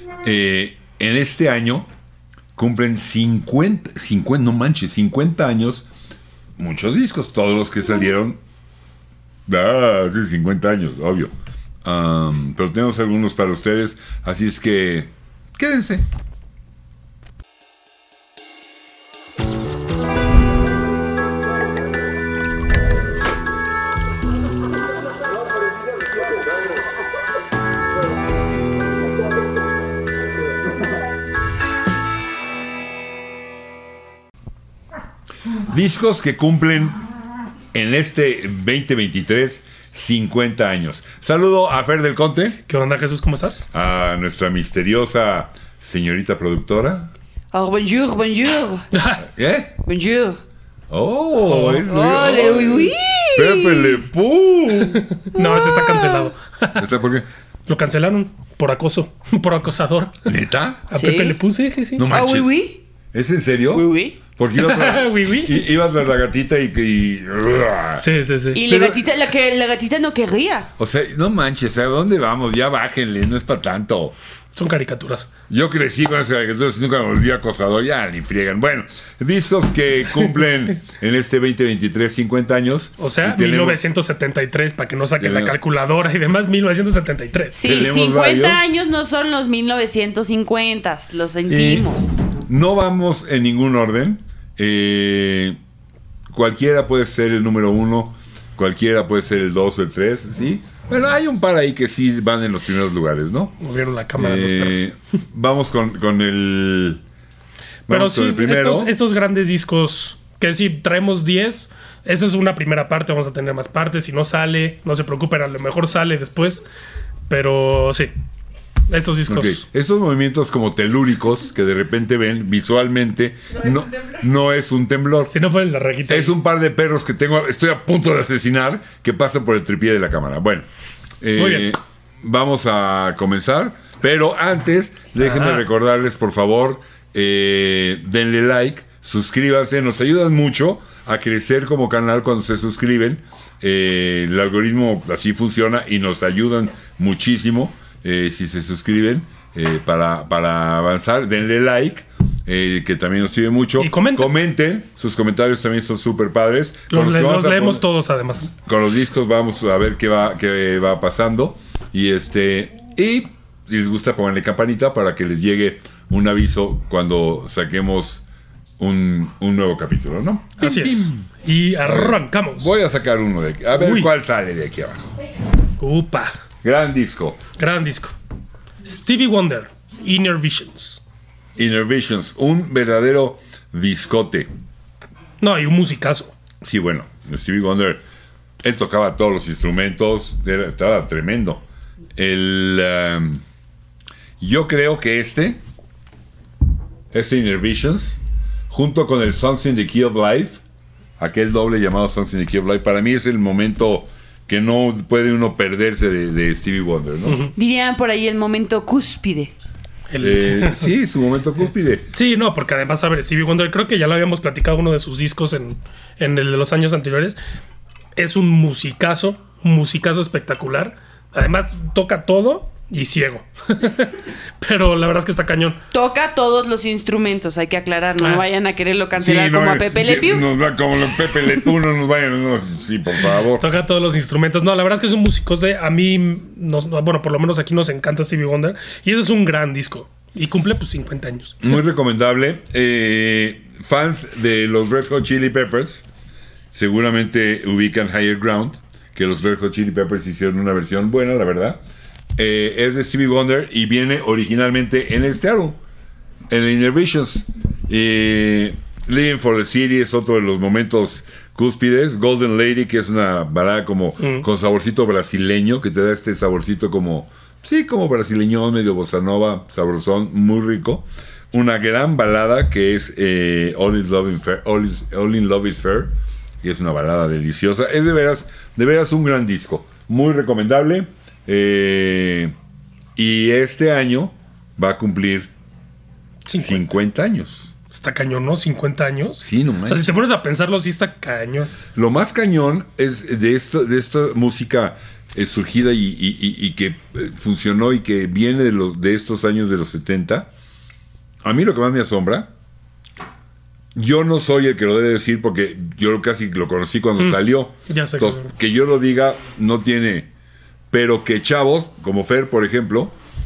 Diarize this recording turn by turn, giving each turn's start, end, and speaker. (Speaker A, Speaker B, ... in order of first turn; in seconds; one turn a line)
Speaker A: 0.2-1.9
Speaker A: 2.5-5.8
Speaker A: 6.6-8.4
Speaker A: 9.5-11.3
Speaker A: 11.8-16.0
Speaker A: 35.7-37.0
Speaker A: 37.7-42.6
Speaker B: 42.7-43.7
Speaker A: 43.7-47.1
Speaker C: 47.5-48.9
Speaker B: 48.9-49.2
Speaker A: 49.2-49.8
Speaker C: 49.8-50.4
Speaker A: 50.9-55.1
Speaker B: 51.4-51.9
Speaker C: 51.8-54.0
Speaker B: 55.0-56.8
Speaker C: 55.3-56.3
Speaker A: 56.7-57.3
Speaker B: 57.7-60.1
Speaker A: 60.2-60.8
Speaker B: 60.9-62.1
Speaker C: 60.9-61.4
Speaker A: 62.0-68.0
Speaker C: 62.1-62.8
Speaker C: 63.7-64.2
Speaker B: 64.6-65.7
Speaker B: 68.0-68.6
Speaker C: 68.5-70.7
Speaker A: 68.7-69.0
Speaker A: 70.8-74.1
Speaker B: 74.5-75.3
Speaker A: 75.5-83.8
Speaker B: 83.0-87.5
Speaker A: 85.2-85.5
Speaker C: 87.5-92.0
Speaker A: 87.6-88.6
Speaker A: 91.5-91.9
Speaker A: 92.5-95.6
Speaker A: 96.3-103.5
Speaker B: 103.6-104.8
Speaker A: 104.2-107.0
Speaker A: 107.9-108.9
Speaker B: 107.9-116.6
Speaker B: 117.3-118.1
Speaker B: 118.9-119.6
Speaker A: 119.3-125.3
Speaker B: 125.3-126.3
Speaker A: 126.1-130.7
Speaker A: 131.2-157.8
Speaker B: 131.4-131.7
Speaker B: 135.2-135.6
Speaker B: 153.8-154.3
Speaker B: 156.9-158.5
Speaker A: 158.6-168.2
Speaker A: 168.8-171.3
Speaker B: 170.6-172.7
Speaker A: 171.8-175.1
Speaker B: 173.8-174.1
Speaker B: 175.8-176.4
Speaker A: 176.6-177.4
Speaker B: 177.6-178.1
Speaker B: 178.8-181.0
Speaker A: 181.6-184.5
Speaker B: 185.4-186.3
Speaker A: 186.6-188.0
Speaker A: 188.6-191.6
Speaker A: 192.2-193.4
Speaker A: 194.4-195.6
Speaker A: 197.1-200.6
Speaker A: 201.2-207.4
Speaker B: 207.3-207.5
Speaker C: 207.6-209.5
Speaker B: 210.1-210.9
Speaker A: 210.2-212.1
Speaker B: 212.1-217.4
Speaker B: 218.2-225.8
Speaker C: 225.9-230.5
Speaker A: 229.2-233.6
Speaker B: 233.6-241.7
Speaker A: 241.6-246.0
Speaker A: 246.7-251.8
Speaker A: 252.3-255.8
Speaker A: 256.5-282.5
Speaker A: 283.2-285.5
Speaker B: 286.4-286.9
Speaker A: 286.6-287.7
Speaker B: 287.9-291.7
Speaker A: 289.4-290.1
Speaker A: 291.9-300.5
Speaker A: 301.4-302.5
Speaker A: 303.9-310.3
Speaker B: 307.2-308.4
Speaker A: 310.9-313.1